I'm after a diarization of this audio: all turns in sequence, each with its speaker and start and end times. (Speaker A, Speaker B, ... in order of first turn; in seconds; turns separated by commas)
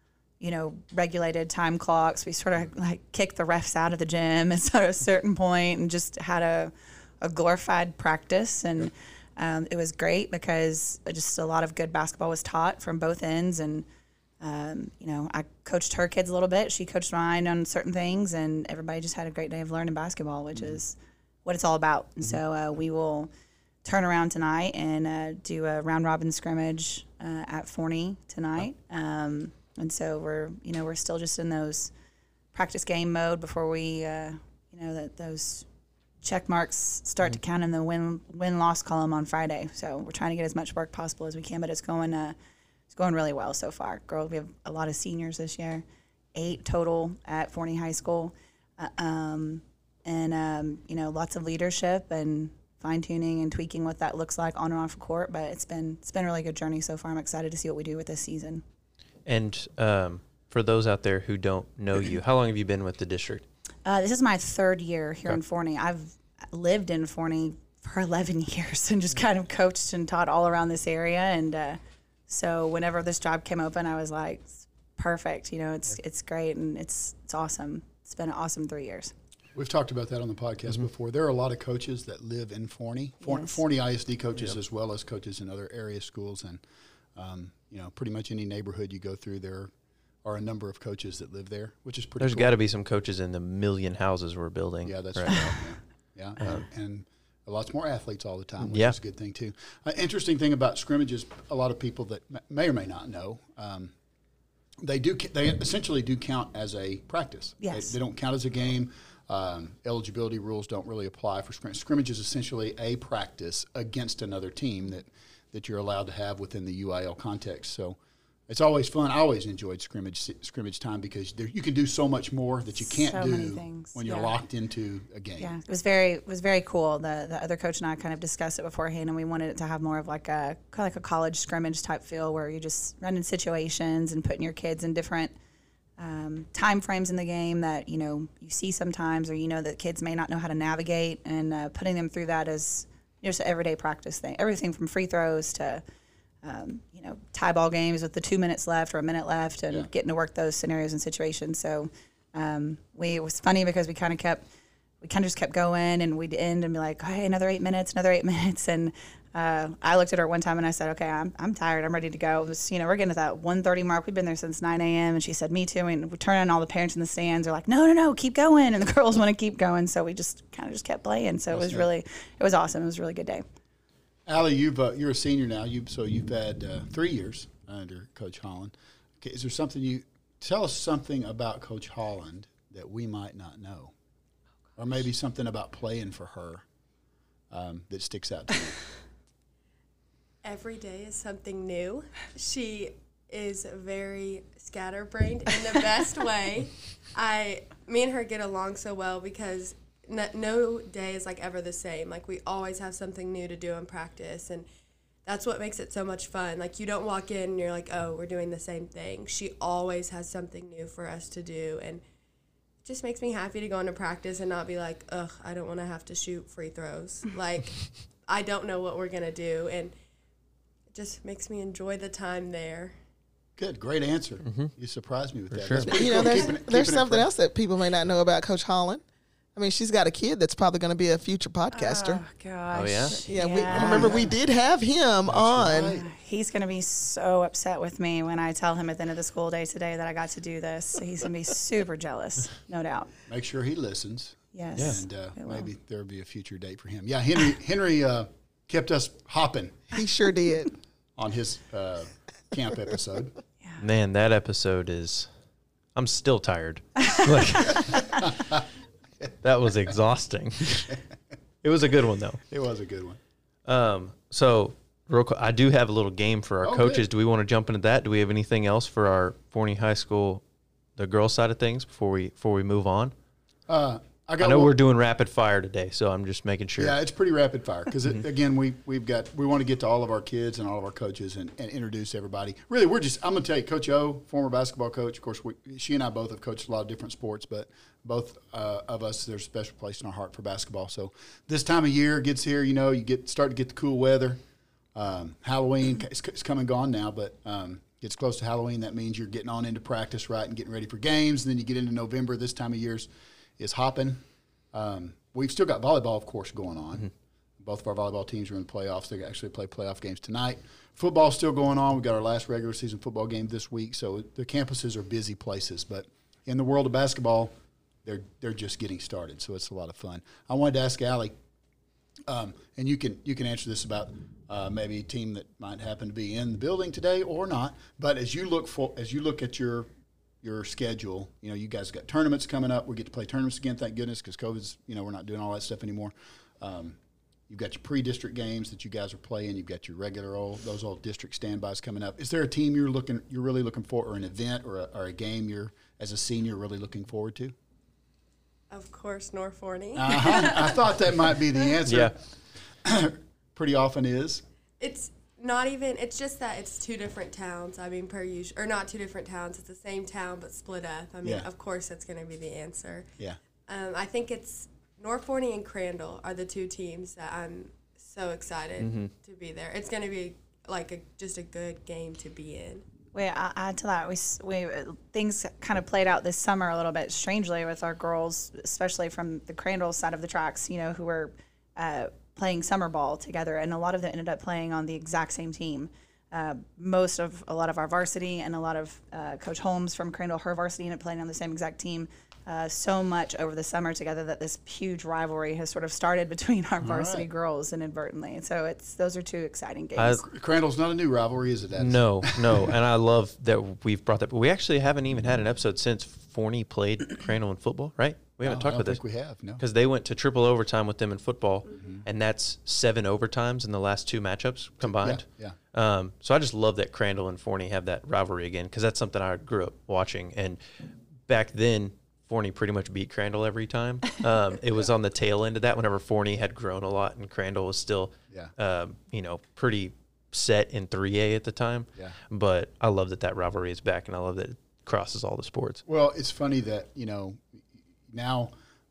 Speaker A: 0.4-13.8, Speaker A: 14.4-23.3, Speaker A: 23.8-31.9, Speaker A: 32.5-35.6, Speaker A: 36.2-42.4, Speaker A: 42.9-45.8, Speaker A: 46.3-58.6, Speaker B: 59.2-63.5, Speaker A: 63.9-79.1, Speaker C: 79.5-86.6, Speaker A: 83.2-83.6, Speaker C: 87.2-89.7, Speaker C: 90.2-92.5, Speaker B: 92.2-95.4, Speaker C: 94.8-103.9, Speaker B: 98.6-99.0, Speaker C: 104.8-125.5, Speaker A: 107.6-107.9, Speaker A: 122.8-124.3, Speaker A: 125.4-135.3, Speaker A: 136.0-145.8, Speaker A: 146.4-154.4, Speaker A: 155.0-173.4, Speaker C: 171.5-171.9, Speaker C: 174.3-183.9, Speaker C: 184.8-186.6, Speaker C: 187.5-188.8, Speaker D: 190.4-204.7, Speaker D: 205.2-212.0, Speaker D: 212.8-219.9, Speaker D: 220.9-222.9, Speaker C: 223.6-227.3, Speaker B: 224.4-224.7, Speaker B: 225.5-225.9, Speaker E: 225.8-229.0, Speaker E: 229.6-232.2, Speaker A: 231.7-234.3, Speaker B: 232.7-233.2, Speaker E: 233.3-236.0, Speaker C: 233.6-234.3, Speaker C: 235.3-236.0, Speaker A: 235.6-243.1, Speaker C: 243.3-249.8, Speaker A: 244.5-245.7, Speaker E: 249.9-250.7, Speaker C: 251.2-253.3, Speaker B: 253.8-255.3, Speaker B: 255.9-257.9, Speaker A: 257.7-258.1, Speaker B: 259.4-261.0, Speaker B: 261.6-262.4, Speaker C: 262.5-263.2, Speaker B: 263.6-270.4, Speaker C: 266.6-267.1, Speaker B: 271.0-273.1, Speaker C: 273.7-274.8, Speaker B: 274.4-277.0, Speaker C: 276.8-294.4, Speaker C: 294.9-307.1, Speaker C: 307.6-317.5, Speaker C: 318.0-321.4, Speaker C: 322.3-329.9, Speaker C: 330.4-347.5, Speaker D: 348.7-350.9, Speaker C: 349.9-352.2, Speaker B: 351.9-352.1, Speaker C: 352.8-354.4, Speaker D: 354.8-363.1, Speaker D: 363.7-372.8, Speaker B: 368.8-369.1, Speaker A: 373.1-400.2, Speaker C: 396.8-397.3, Speaker C: 400.2-402.7, Speaker B: 401.8-409.0, Speaker C: 408.4-409.6, Speaker B: 409.6-420.6, Speaker C: 411.7-412.0, Speaker C: 414.8-415.6, Speaker B: 421.3-435.8, Speaker C: 435.9-438.5